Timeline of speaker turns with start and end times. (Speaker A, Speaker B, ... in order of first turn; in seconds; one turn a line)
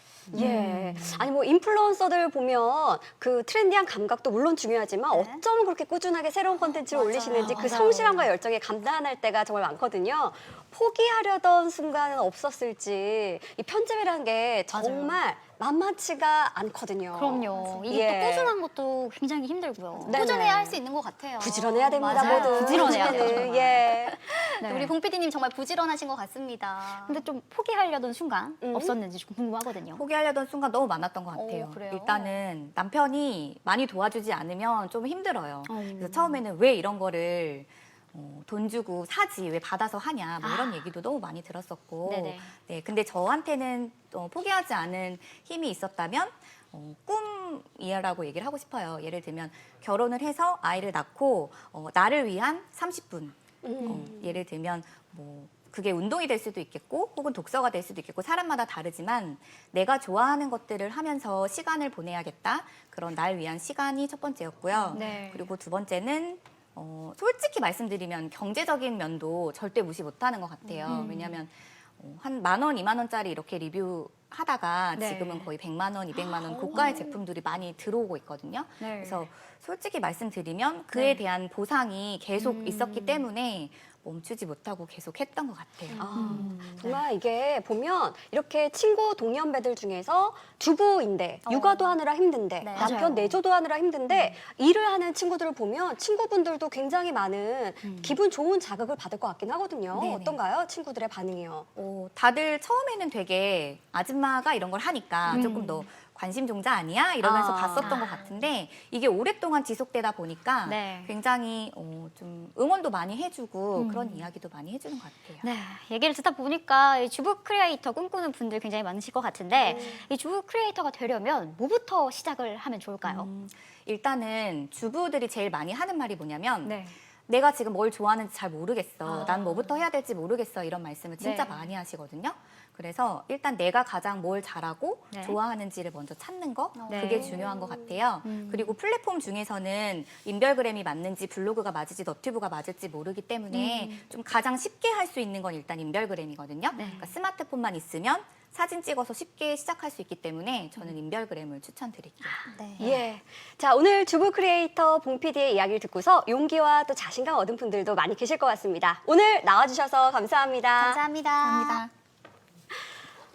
Speaker A: 0.3-18.6
Speaker B: 0.3-1.2
Speaker C: 5.1-5.4
Speaker C: 6.6-7.7
Speaker B: 7.2-8.3
Speaker B: 14.7-15.2
Speaker B: 17.1-20.8
Speaker C: 17.6-17.9
Speaker A: 20.0-20.7
Speaker C: 20.1-27.2
Speaker A: 21.4-24.2
Speaker B: 22.0-23.8
Speaker B: 24.6-24.9
Speaker B: 27.0-30.0
Speaker A: 28.6-29.0
Speaker D: 29.9-86.1
Speaker C: 31.3-32.4
Speaker B: 35.6-36.4
Speaker B: 40.4-40.8
Speaker B: 42.0-42.5
Speaker A: 53.6-54.3
Speaker B: 53.8-54.1
Speaker B: 64.9-65.5
Speaker B: 70.8-71.4
Speaker B: 74.9-75.5
Speaker B: 76.2-77.1
Speaker B: 78.8-79.3
Speaker B: 80.9-81.2
Speaker B: 82.4-83.2
Speaker C: 85.9-86.4
Speaker A: 86.0-101.7
Speaker B: 86.1-87.0
Speaker B: 91.5-92.0
Speaker C: 92.6-93.0
Speaker B: 92.8-93.4
Speaker B: 94.1-94.4
Speaker B: 97.8-98.2
Speaker D: 99.9-100.4
Speaker D: 101.8-115.5
Speaker B: 105.3-105.8
Speaker A: 107.2-108.0
Speaker B: 107.8-108.3
Speaker B: 110.6-111.1
Speaker B: 113.7-114.3
Speaker B: 115.4-123.3
Speaker A: 119.6-120.1
Speaker D: 123.0-152.4
Speaker B: 126.6-126.9
Speaker B: 129.0-129.7
Speaker B: 131.2-131.7
Speaker B: 135.1-135.4
Speaker C: 136.7-137.5
Speaker B: 136.9-137.4
Speaker A: 137.2-138.0
Speaker B: 138.2-138.8
Speaker B: 143.5-144.1
Speaker B: 146.7-147.1
Speaker B: 152.2-153.0
Speaker C: 152.5-153.0
Speaker A: 152.8-161.0
Speaker C: 160.8-161.8
Speaker D: 161.4-161.9